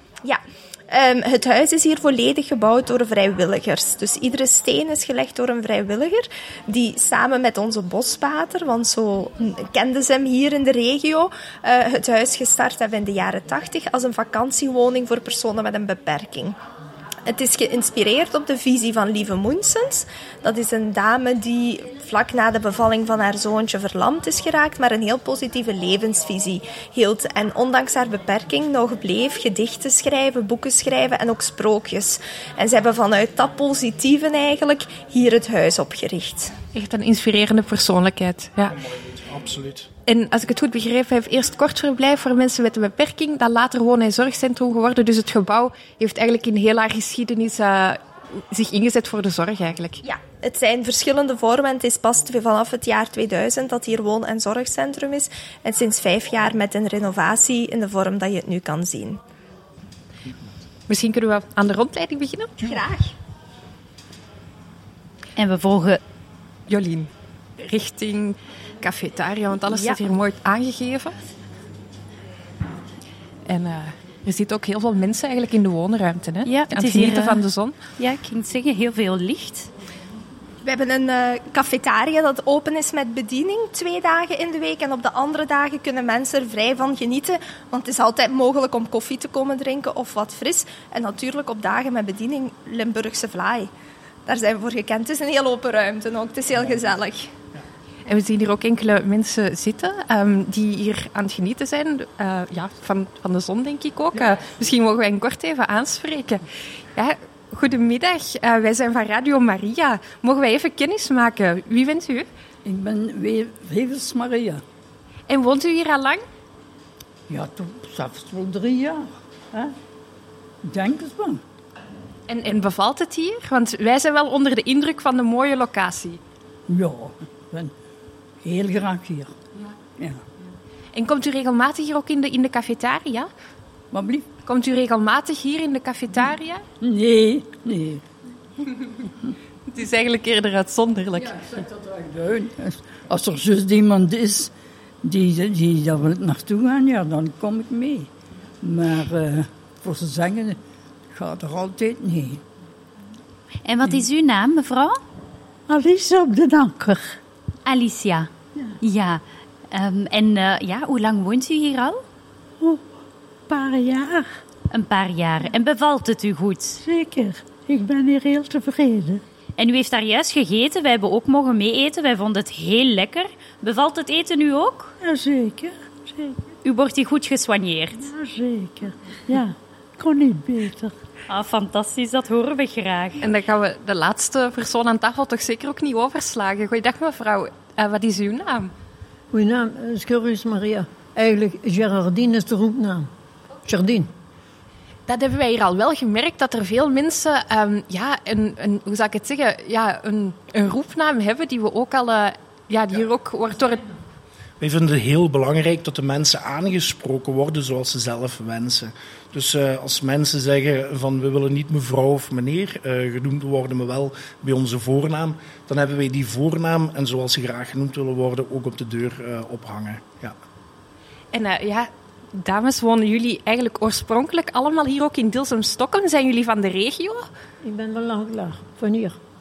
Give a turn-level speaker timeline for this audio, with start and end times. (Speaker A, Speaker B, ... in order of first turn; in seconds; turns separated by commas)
Speaker A: 0.2-16.6, Speaker A: 17.3-36.6, Speaker B: 36.7-38.8, Speaker C: 38.7-39.9, Speaker B: 40.1-50.0, Speaker A: 50.0-59.2, Speaker B: 60.9-62.6, Speaker A: 62.6-63.1, Speaker D: 65.4-66.0, Speaker B: 66.7-71.2, Speaker B: 73.5-77.8, Speaker D: 76.5-77.4, Speaker D: 78.0-79.7, Speaker A: 80.6-93.7, Speaker A: 94.3-97.3, Speaker B: 98.1-106.4, Speaker B: 107.0-112.3, Speaker E: 112.7-114.6, Speaker B: 115.3-116.2, Speaker E: 117.3-119.7, Speaker E: 120.6-121.4, Speaker B: 122.3-126.2, Speaker E: 126.7-127.7, Speaker E: 128.4-129.3, Speaker E: 130.0-130.2, Speaker B: 130.9-133.3, Speaker E: 133.9-134.3, Speaker B: 134.4-136.7, Speaker E: 136.8-138.0, Speaker B: 139.7-141.5, Speaker E: 141.2-144.5, Speaker E: 145.0-148.1, Speaker E: 148.6-150.6, Speaker E: 151.1-152.4, Speaker F: 153.7-154.9, Speaker E: 155.7-157.2, Speaker F: 157.7-158.3, Speaker F: 158.8-159.2, Speaker F: 159.8-161.9, Speaker D: 160.8-161.3, Speaker E: 163.5-164.3, Speaker F: 164.7-166.8, Speaker E: 166.8-169.2, Speaker F: 169.6-174.9, Speaker E: 175.0-176.4, Speaker F: 176.7-178.1, Speaker E: 178.0-181.0, Speaker F: 181.3-183.2, Speaker B: 183.2-188.7, Speaker G: 189.3-193.1, Speaker G: 193.7-194.1, Speaker B: 195.1-203.9, Speaker C: 204.6-220.4, Speaker B: 221.3-227.3, Speaker G: 227.6-229.2